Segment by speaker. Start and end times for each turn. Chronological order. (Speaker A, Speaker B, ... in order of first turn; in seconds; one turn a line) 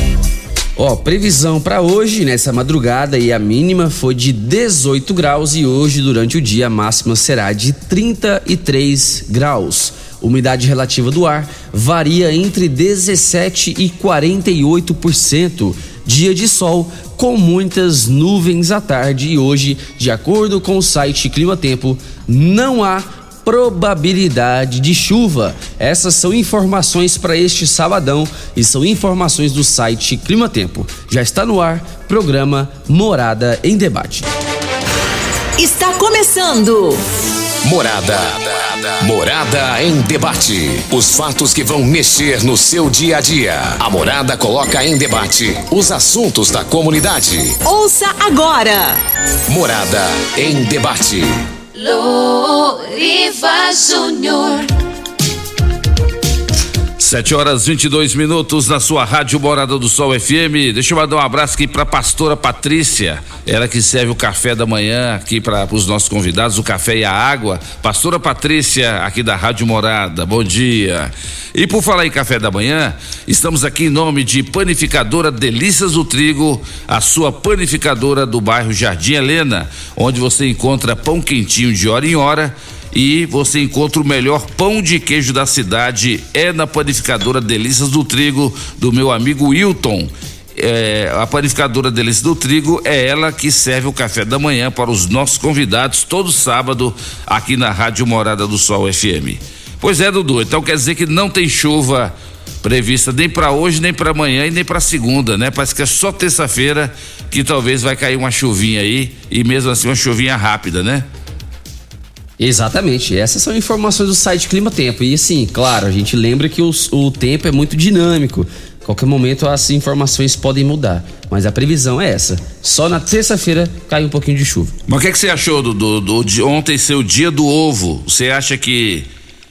Speaker A: 0.8-34.3
Speaker B: 35.6-37.0
Speaker C: 37.6-47.6
Speaker B: 47.6-49.0
Speaker C: 49.5-51.4
Speaker D: 51.7-54.7
Speaker E: 57.0-111.1
Speaker A: 112.4-124.7
Speaker E: 124.9-129.1